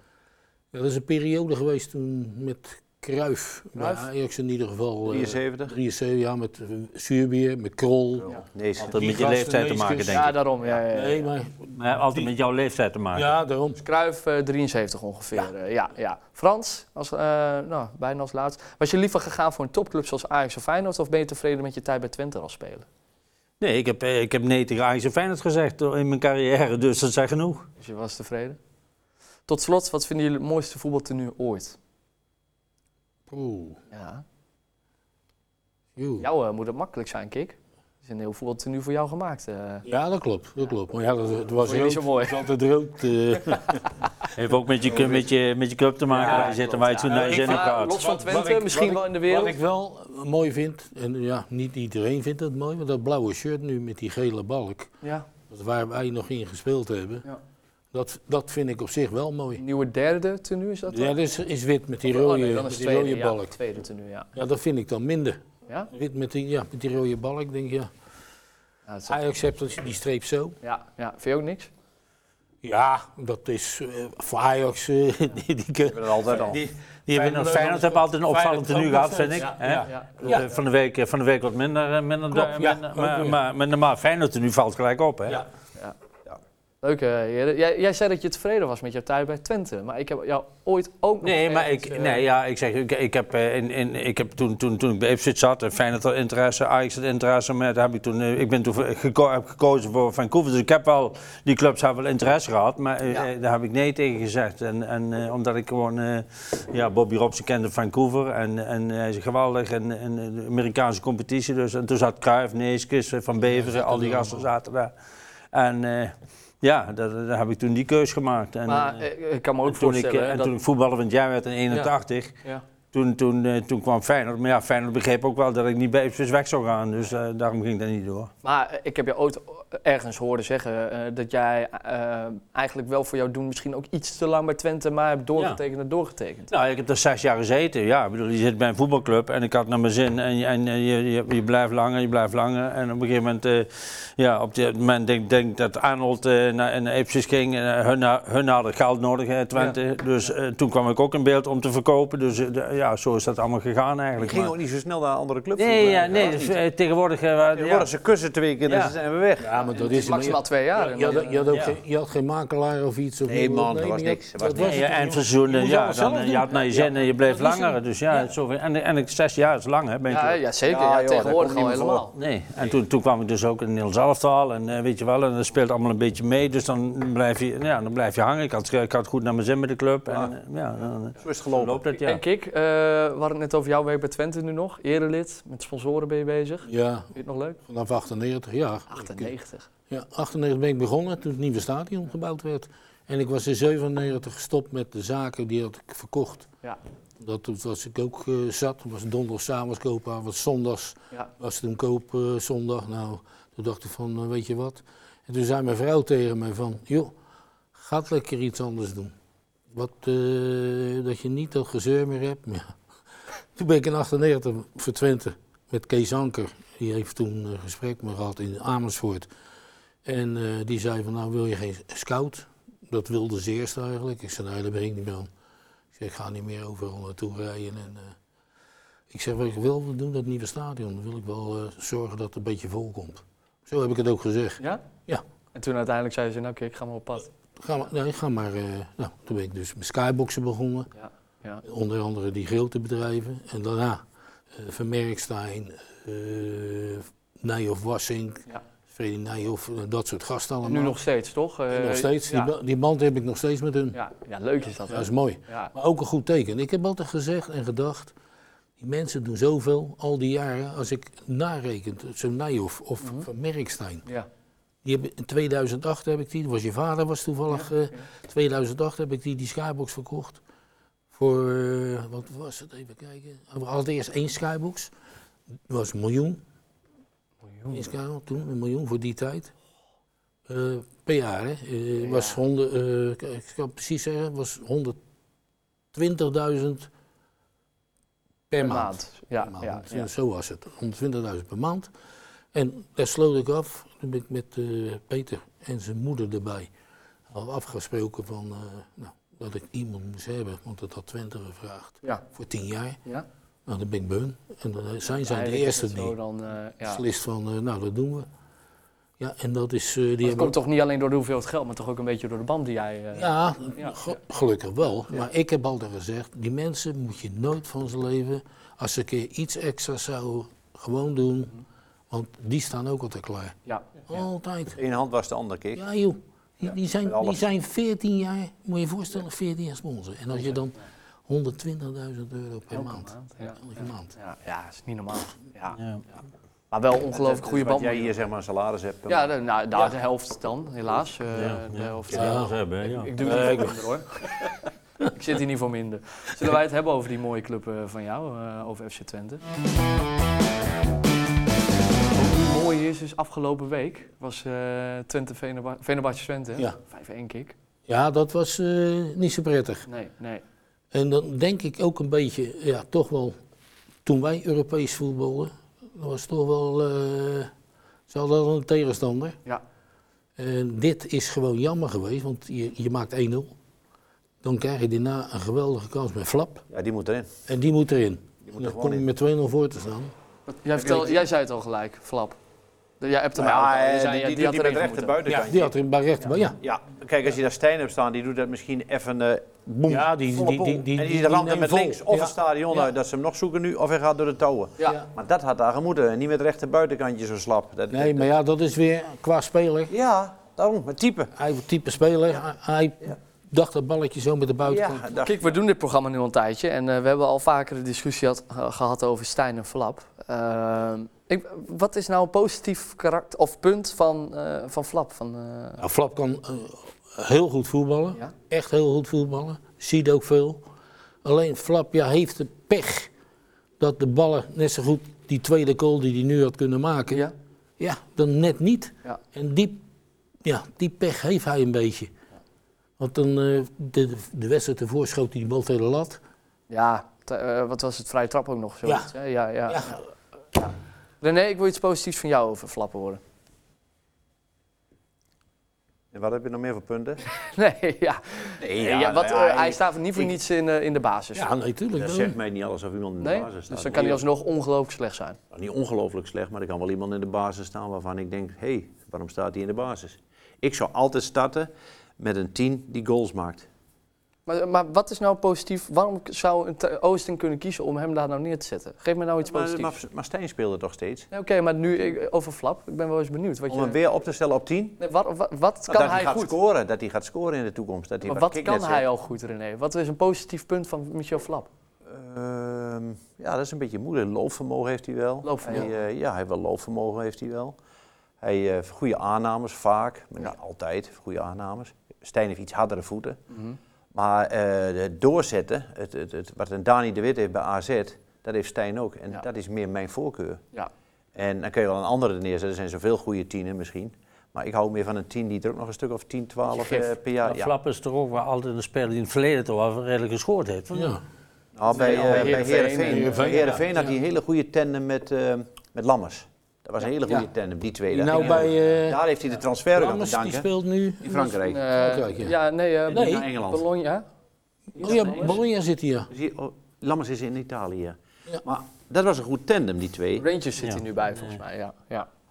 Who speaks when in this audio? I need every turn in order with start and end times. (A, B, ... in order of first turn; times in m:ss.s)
0:00.7-0:08.3 A
0:03.8-0:04.1 B
0:05.1-0:05.7 C
0:08.2-0:09.0 C
0:08.8-0:10.4 D
0:08.8-0:10.3 A
0:10.1-0:11.3 B
0:10.9-0:12.3 A
0:11.8-0:13.3 D
0:13.1-0:13.8 A
0:13.8-0:22.9 B
0:23.6-0:27.7 D
0:27.8-0:28.6 B
0:29.5-0:31.8 B
0:33.3-0:33.8 A
0:33.9-0:34.2 B
0:36.0-0:36.3 A
0:36.2-0:39.8 B
0:39.8-0:43.8 A
0:41.6-0:42.5 B
0:44.4-0:48.2 D
0:46.1-0:49.6 B
0:46.2-0:46.6 A
0:47.1-0:54.9 A
0:55.0-0:55.3 B
0:55.5-0:57.3 A
0:57.9-0:59.6 A
0:59.6-1:01.2 B
1:00.9-1:03.6 A
1:02.0-1:04.3 B
1:04.4-1:05.4 A
1:05.9-1:07.9 A
1:08.9-1:09.2 B
1:09.1-1:10.6 A
1:10.6-1:11.7 B
1:12.6-1:20.5 A
1:15.9-1:16.6 C
1:17.1-1:25.4 D
1:19.8-1:20.4 B
1:22.3-1:23.4 A
1:26.8-1:32.2 B
1:31.2-1:54.9 D
1:53.4-1:54.5 A
1:55.5-1:59.0 D
1:58.7-2:00.5 B
1:59.7-2:02.4 D
2:02.9-2:08.3 D
2:08.4-2:16.5 B
2:16.5-2:34.5 D
2:34.2-2:36.6 C
2:35.6-2:37.9 D
2:37.5-2:39.5 C
2:38.7-2:39.0 D
2:39.4-2:47.8 A
2:39.7-2:41.5 B
2:41.5-2:41.8 D
2:43.3-2:44.8 C
2:44.6-2:50.4 D
2:50.1-2:52.1 B
2:50.6-2:52.8 C
2:52.1-3:02.2 D
3:01.2-3:01.8 C
3:01.9-3:07.6 B
3:06.7-3:07.1 A
3:07.6-3:09.3 A
3:08.9-3:09.7 B
3:09.9-3:16.5 A
3:17.2-3:27.1 A
3:27.8-3:29.1 A
3:29.7-3:32.7 A
3:33.6-3:39.3 A
3:40.1-3:45.3 A
3:46.0-3:48.2 A
3:49.1-3:55.2 A
3:55.5-3:57.3 B
3:57.6-4:00.9 A
4:01.0-4:01.6 B
4:01.6-4:11.0 A
4:10.7-4:12.5 B
4:11.7-4:14.0 A
4:13.9-4:15.7 B
4:14.9-4:18.1 A
4:18.8-4:24.0 A
4:23.0-4:23.3 B
4:24.8-4:30.4 A
4:27.5-4:28.0 B
4:31.1-4:34.9 A
4:35.7-4:36.4 A
4:37.5-4:37.9 B
4:37.7-4:39.5 A
4:40.5-4:45.0 A
4:42.0-4:42.4 B
4:45.9-4:46.9 A
4:48.5-4:51.9 A
4:48.6-4:50.1 B
4:52.5-4:56.7 A
4:57.3-5:03.0 A
5:03.7-5:06.1 A
5:05.2-5:07.0 B
5:06.8-5:08.3 A
5:09.2-5:10.6 A
5:10.2-5:14.2 B
5:13.2-5:21.5 A
5:22.1-5:23.6 A
5:24.1-5:24.8 A
5:24.8-5:25.8 C
5:25.8-5:34.1 A
5:27.0-5:27.4 C
5:32.7-5:35.8 B
5:35.8-5:36.0 D
5:36.7-5:38.1 B
5:37.1-5:39.9 C
5:39.1-5:44.3 B
5:41.4-5:43.1 D
5:42.1-5:42.6 A
5:43.2-5:43.8 A
5:45.1-5:49.4 B
5:52.1-5:57.6 B
5:57.9-5:59.8 A
5:59.9-6:00.4 B
6:00.9-6:03.4 A
6:04.1-6:07.5 A
6:08.1-6:09.4 A
6:10.4-6:13.5 A
6:14.4-6:16.6 A
6:16.7-6:17.3 C
6:17.5-6:20.1 A
6:18.4-6:19.0 C
6:20.5-6:22.4 B
6:20.8-6:21.3 C
6:23.0-6:25.2 B
6:23.4-6:25.7 C
6:25.2-6:26.6 A
6:26.6-6:38.3 C
6:29.9-6:32.8 A
6:37.9-6:39.9 A
6:39.9-6:41.3 C
6:41.4-6:45.0 A
6:44.6-6:45.5 C
6:45.2-6:55.8 B
6:55.8-7:00.6 A
7:01.2-7:03.1 A
7:03.8-7:09.8 A
7:10.4-7:12.1 A
7:13.0-7:16.2 A
7:16.7-7:20.0 B
7:19.7-7:20.0 A
7:21.2-7:23.2 B
7:26.1-7:27.2 C
7:27.4-7:31.5 B
7:28.5-7:30.4 C
7:31.4-7:32.4 A
7:32.0-7:34.2 C
7:33.2-7:35.4 B
7:35.5-7:43.7 C
7:44.5-7:50.0 B
7:49.4-7:51.3 C
7:51.3-7:54.0 B
7:53.7-7:55.0 C
7:55.0-7:56.5 B
7:55.9-7:59.0 C
7:58.2-8:01.7 B
8:02.1-8:07.8 C
8:05.4-8:05.9 B
8:08.4-8:13.4 C
8:13.5-8:13.8 B
8:14.1-8:20.6 C
8:21.4-8:27.7 C
8:26.7-8:27.1 B
8:27.4-8:31.2 D
8:30.9-8:31.2 A
8:31.8-8:40.7 C
8:31.9-8:33.6 B
8:33.0-8:34.1 A
8:38.1-8:39.2 A
8:39.9-8:42.5 A
8:41.2-8:41.9 C
8:41.6-8:44.2 B
8:43.1-8:43.8 C
8:43.1-8:43.4 A
8:44.9-8:45.6 B
8:45.0-8:46.3 A
8:46.3-8:50.5 C
8:50.4-8:52.3 B
8:50.8-8:51.6 D